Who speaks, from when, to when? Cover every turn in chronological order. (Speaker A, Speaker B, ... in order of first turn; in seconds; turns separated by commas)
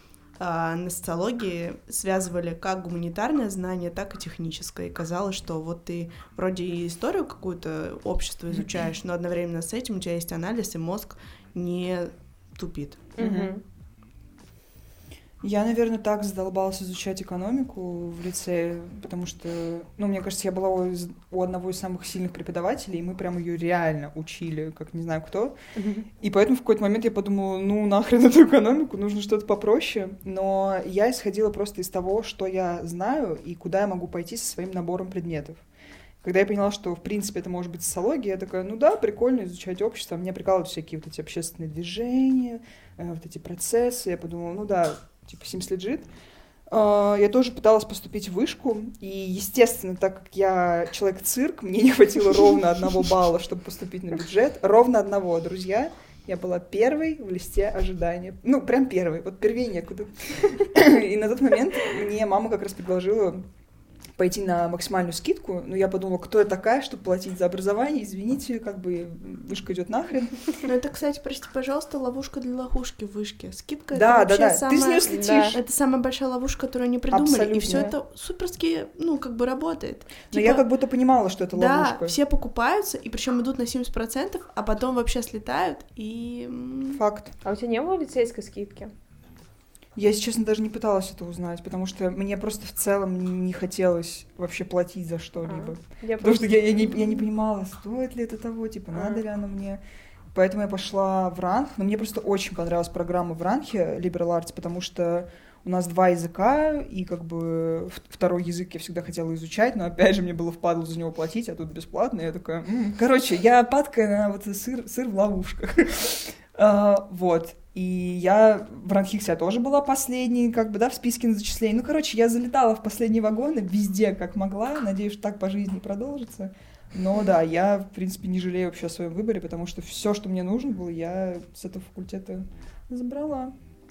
Speaker A: 0.4-13.1, Speaker B: 13.2-13.6, Speaker C: 13.2-13.6, Speaker C: 15.4-25.6, Speaker B: 25.8-26.1, Speaker C: 26.1-35.6, Speaker C: 36.2-46.1, Speaker C: 46.7-63.4, Speaker C: 64.2-70.4, Speaker A: 70.6-80.6, Speaker C: 73.9-75.6, Speaker B: 75.0-75.5, Speaker C: 77.1-77.9, Speaker C: 80.3-82.2, Speaker A: 81.5-87.0, Speaker C: 86.9-87.3, Speaker B: 87.4-88.9, Speaker C: 90.0-99.8, Speaker B: 95.4-97.2, Speaker B: 98.9-99.2, Speaker C: 100.3-133.5